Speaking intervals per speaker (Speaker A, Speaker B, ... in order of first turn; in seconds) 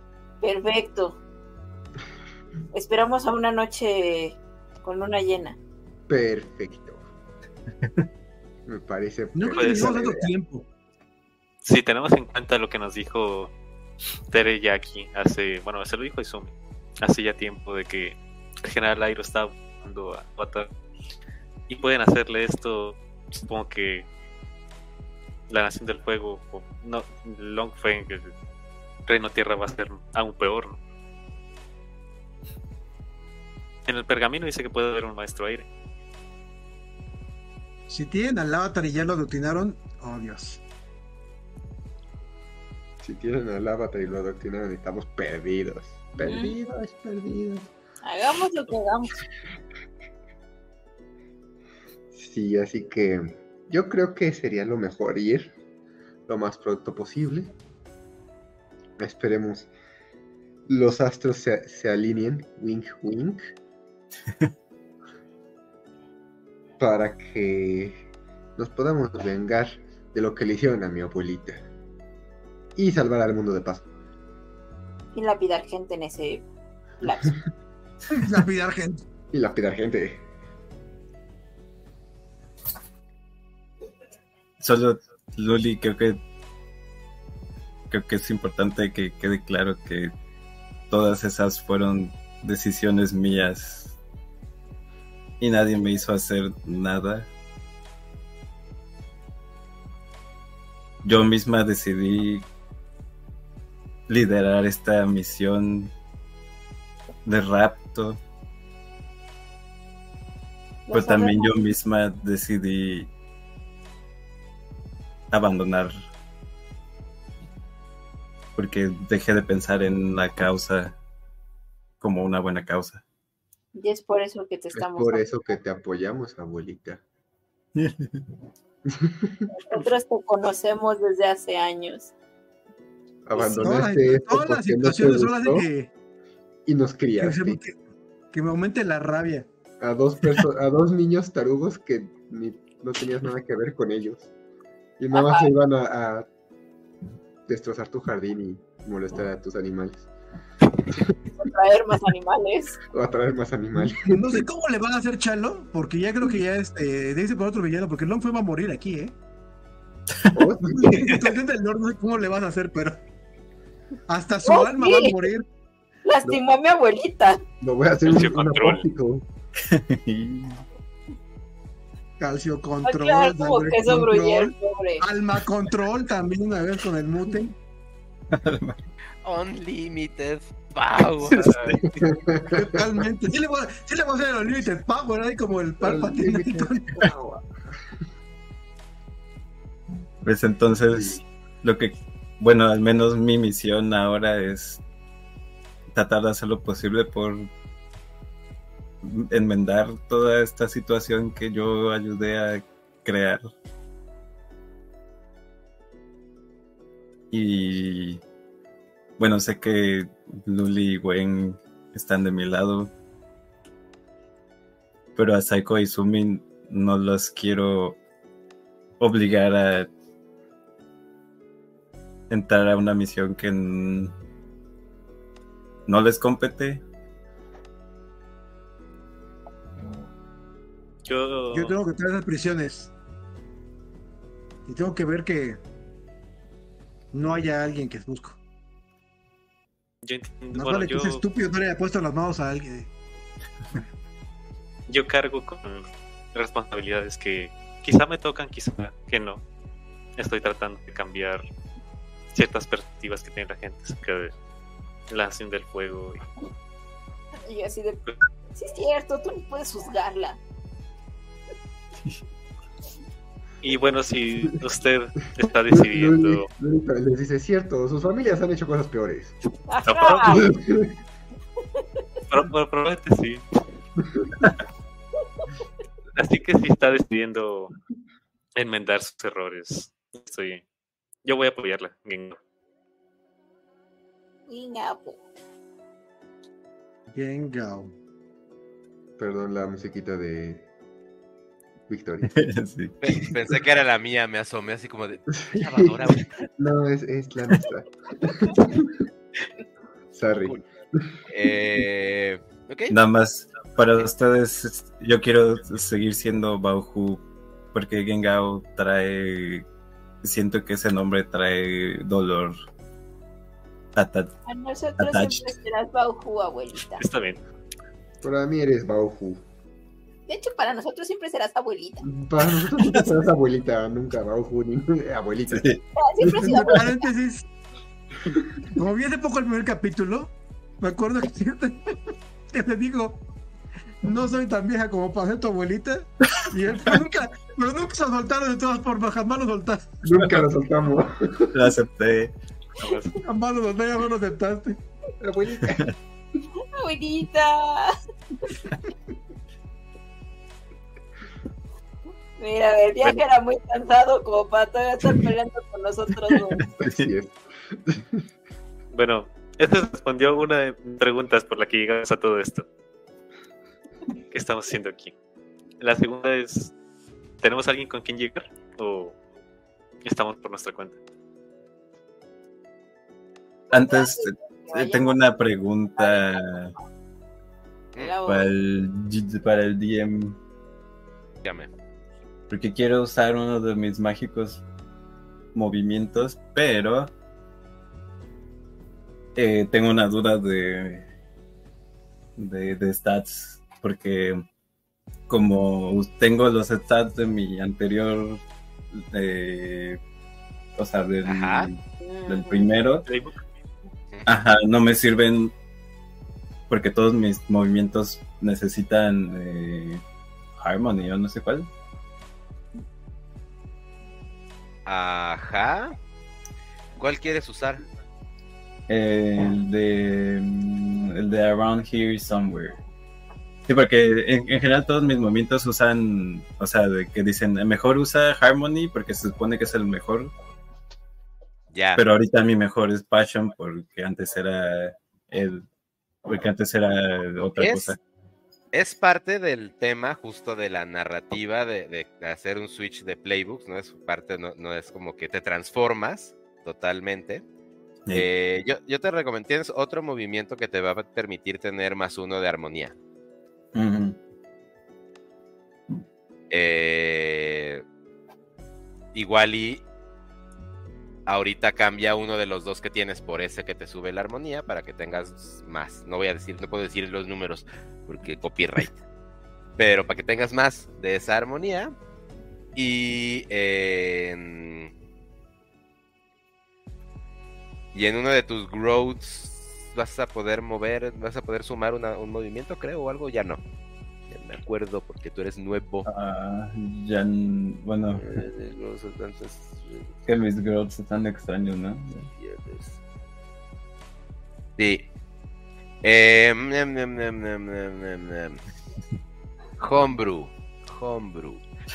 Speaker A: 0.4-1.2, 2.7-5.6, 46.2-46.5, 48.0-49.1, 75.1-76.4, 77.0-77.3, 110.9-111.6, 123.7-125.2, 129.7-132.1, 145.1-145.5, 151.4-152.8, 164.4-165.2, 166.0-167.4, 172.8-175.0, 257.4-258.0, 258.5-260.4, 269.7-270.5, 284.5-285.2, 314.5-317.0, 320.3-322.1, 325.9-326.8, 346.7-347.9, 352.4-356.6, 373.7-375.3, 376.0-376.4, 378.0-378.5, 402.0-402.7
Speaker B: 6.1-7.0, 8.7-10.3, 43.0-47.7, 52.1-55.5, 56.3-57.5, 59.0-59.7, 60.7-63.5, 66.8-71.6, 72.8-73.9, 79.3-80.2, 124.7-127.0, 128.9-129.5, 133.2-135.7, 136.7-137.6, 139.8-144.3, 145.0-146.3, 147.5-150.1, 152.9-154.4, 160.3-161.2, 167.6-169.2, 182.0-182.8, 185.8-187.5, 190.9-191.2, 265.7-269.4, 270.3-270.9, 289.2-290.7, 291.9-292.3, 295.4-295.9, 296.6-299.1, 300.1-301.1, 318.2-319.4, 322.0-326.7, 340.0-341.6, 345.2-345.9, 356.7-358.2
Speaker C: 9.3-10.7, 37.9-40.6, 78.1-79.0, 133.4-135.9, 137.2-137.8, 138.3-139.5, 153.9-159.1, 160.7-163.0, 164.1-165.4, 172.2-177.5, 182.5-187.0, 231.5-232.9, 234.7-235.6, 237.1-238.4, 240.5-242.9, 287.1-287.9, 326.3-327.5, 328.7-333.2, 334.0-340.0, 343.2-344.8
Speaker D: 9.5-9.9, 11.6-13.5, 14.3-20.7, 21.7-24.1, 25.5-28.3, 29.1-30.8, 33.9-35.6, 168.1-168.8, 231.1-231.8, 240.0-241.2, 244.9-249.4, 250.2-251.4, 252.3-254.3, 255.1-256.2, 263.6-266.5, 269.8-270.5, 272.3-273.4, 276.1-277.7, 278.6-280.6, 281.2-282.4, 317.0-317.4, 342.8-343.2, 358.9-362.6, 364.3-365.1, 365.8-366.7, 367.4-369.1, 370.0-371.0, 403.1-403.4
Speaker E: 84.6-86.2, 87.9-90.1, 90.9-94.0, 95.4-97.3, 101.0-102.5, 104.1-105.9, 107.2-108.2, 110.9-113.1, 115.3-115.9, 118.5-121.0, 122.0-123.0, 127.8-128.2, 169.6-170.6, 178.3-178.8, 181.2-182.0, 190.2-194.8, 195.9-197.5, 199.0-203.4, 207.3-208.2, 209.2-212.9, 215.1-218.0, 219.0-219.9, 222.3-224.1, 225.9-226.8, 292.3-293.2, 302.9-309.6, 310.2-312.5, 313.9-314.3, 315.0-315.5, 322.6-323.2, 325.5-325.8, 341.5-342.3, 356.5-357.1, 373.7-376.7, 378.2-380.4, 382.5-384.6, 385.5-387.1, 389.3-391.1, 392.4-394.4, 395.3-400.0, 400.7-403.1, 404.2-405.5, 406.7-410.0, 410.6-411.7, 418.9-422.8, 423.6-430.3, 431.9-435.6, 436.2-438.0, 453.7-454.2, 486.0-488.2, 490.2-492.3
Speaker F: 179.2-181.8, 293.0-296.5, 301.2-302.9, 381.4-381.7, 401.2-401.7, 414.9-415.9, 417.0-417.8, 431.7-432.0, 437.6-437.9, 438.7-447.4, 448.1-452.9, 456.5-457.8, 459.1-459.8, 461.3-469.0, 469.8-471.9, 472.7-474.9, 477.9-483.6, 484.3-486.1, 488.1-490.1, 492.4-493.0, 494.8-495.1, 496.0-498.6, 499.8-501.6